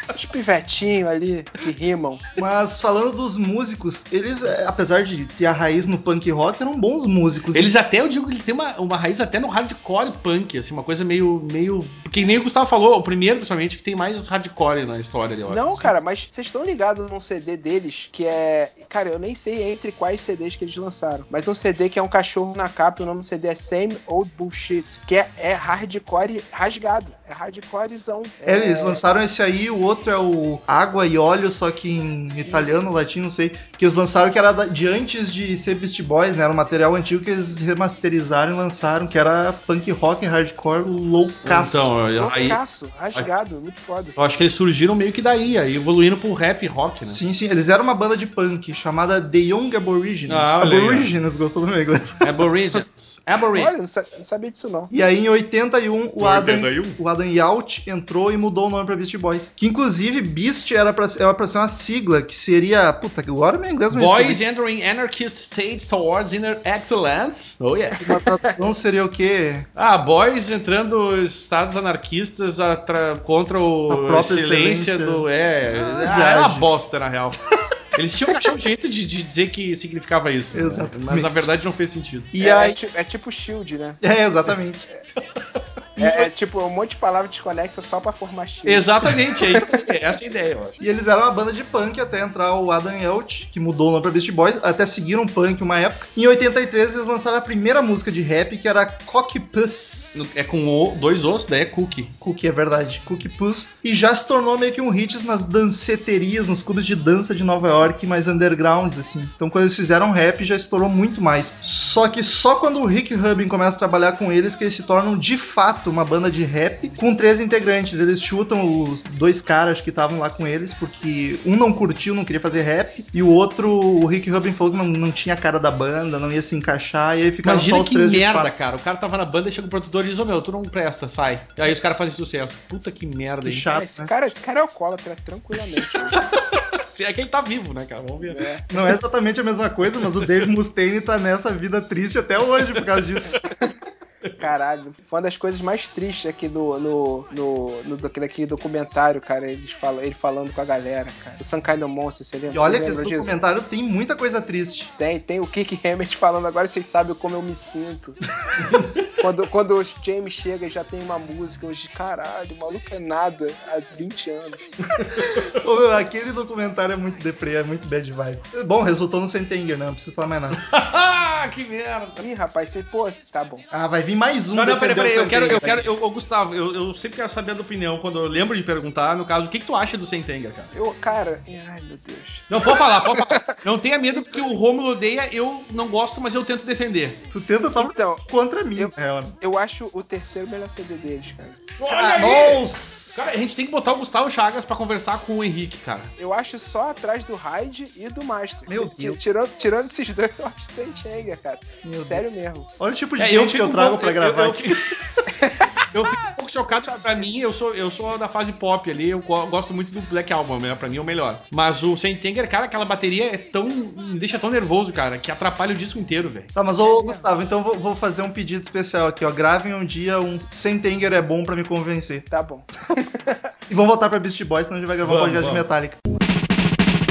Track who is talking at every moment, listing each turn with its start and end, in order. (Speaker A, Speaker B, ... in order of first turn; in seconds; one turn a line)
Speaker A: 0.1-2.2
Speaker B: 2.4-7.7
Speaker C: 7.5-15.9
Speaker A: 15.5-29.0
Speaker B: 28.4-41.9
Speaker A: 32.5-32.7
Speaker C: 41.4-42.6
Speaker A: 42.2-44.1
Speaker C: 44.1-47.2
Speaker B: 47.0-52.3
Speaker C: 50.3-51.1
Speaker C: 52.2-53.7
Speaker A: 53.5-54.9
Speaker B: 54.9-64.4
Speaker C: 56.2-57.0
Speaker C: 63.9-68.1
Speaker B: 68.0-69.7
Speaker A: 68.1-68.6
Speaker C: 69.8-82.3
Speaker B: 73.9-75.3
Speaker B: 75.8-76.7
Speaker B: 80.5-81.5
Speaker B: 82.3-82.8
Speaker A: 82.4-84.0
Speaker B: 84.0-84.8
Speaker B: 86.0-86.3
Speaker A: 86.0-88.9
Speaker C: 88.7-90.8
Speaker B: 90.8-100.3
Speaker C: 100.1-102.1
Speaker B: 102.2-128.5
Speaker C: 127.4-133.7
Speaker B: 133.4-134.1
Speaker A: 133.7-136.2
Speaker C: 136.7-138.5
Speaker A: 138.2-138.6
Speaker B: 138.7-143.4
Speaker A: 144.4-153.3
Speaker B: 152.5-154.9
Speaker A: 155.0-158.2
Speaker A: 159.2-164.7
Speaker B: 165.5-170.6
Speaker C: 170.6-172.2
Speaker A: 172.2-173.7
Speaker B: 173.7-175.9
Speaker C: 174.5-180.7
Speaker A: 180.7-182.5
Speaker C: 182.5-187.2
Speaker A: 183.3-183.5
Speaker B: 187.3-189.4
Speaker A: 187.8-188.2
Speaker A: 188.8-191.6
Speaker C: 191.8-196.1
Speaker B: 191.9-193.3
Speaker A: 196.2-202.7
Speaker B: 198.7-199.2
Speaker B: 201.8-202.2
Speaker B: 202.8-204.7
Speaker C: 203.2-205.0
Speaker A: 205.3-205.7
Speaker C: 205.9-216.5
Speaker A: 206.7-207.3
Speaker B: 216.5-222.3
Speaker A: 216.8-217.3
Speaker A: 222.3-223.5
Speaker B: 223.7-226.0
Speaker C: 225.0-225.7